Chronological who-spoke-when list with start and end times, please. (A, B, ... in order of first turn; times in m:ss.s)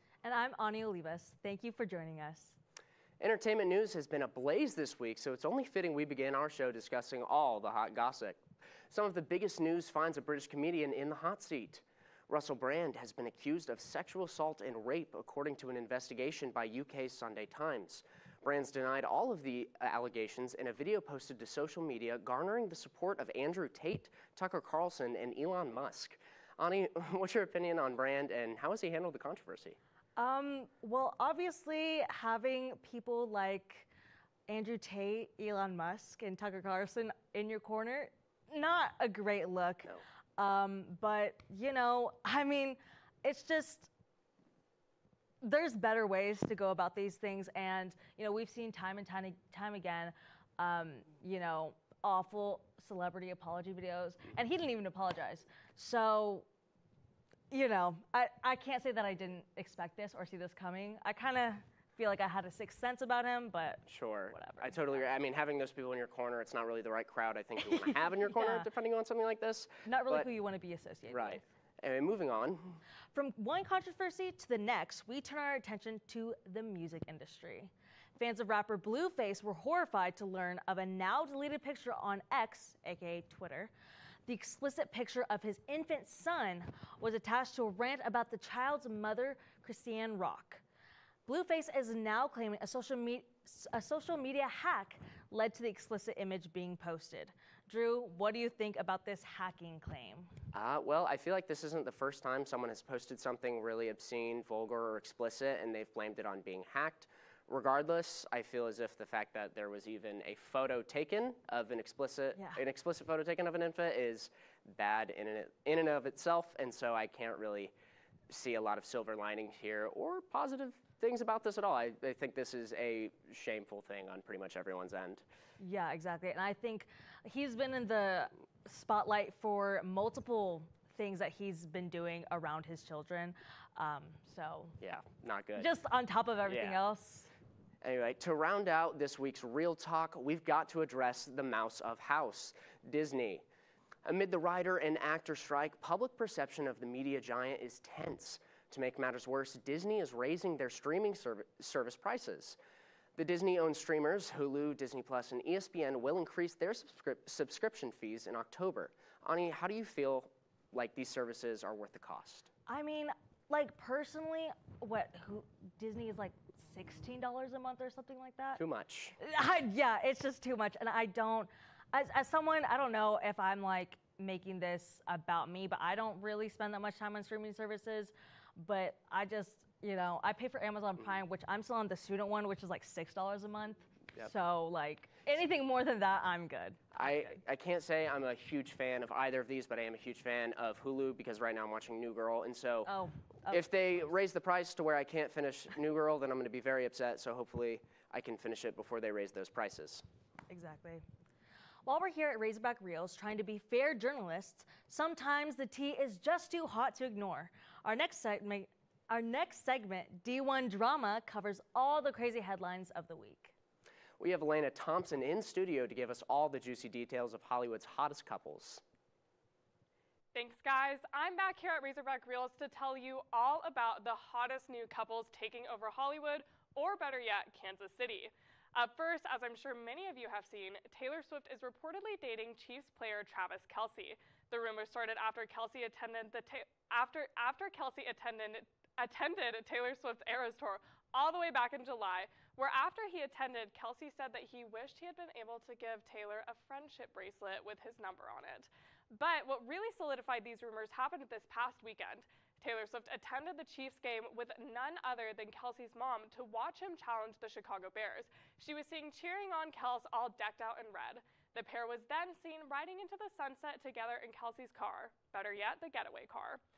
0:00.2-0:02.6 A
0:03.2-0:29.8 B
0:30.2-0:33.9 A
0:34.5-0:43.9 A
0:45.4-0:56.5 A
0:57.5-1:05.1 A
1:03.9-1:10.3 B
1:08.3-1:08.7 A
1:09.9-1:11.5 A
1:11.1-1:12.8 B
1:13.1-1:23.7 A
1:24.3-1:30.6 A
1:31.3-1:40.3 A
1:40.5-1:57.7 B
1:52.4-1:52.6 A
1:58.3-2:05.2 B
2:05.6-2:14.8 A
2:14.8-2:15.7 B
2:15.6-2:17.3 A
2:16.4-2:16.8 B
2:17.8-2:23.4 B
2:24.0-2:32.6 B
2:33.2-2:42.5 B
2:42.7-2:48.6 A
2:48.6-2:49.2 B
2:49.2-3:07.3 A
3:07.0-3:12.9 B
3:12.8-3:13.9 A
3:13.5-3:20.0 B
3:20.5-3:21.0 A
3:21.8-3:33.5 A
3:34.2-3:38.8 B
3:40.3-4:26.6 C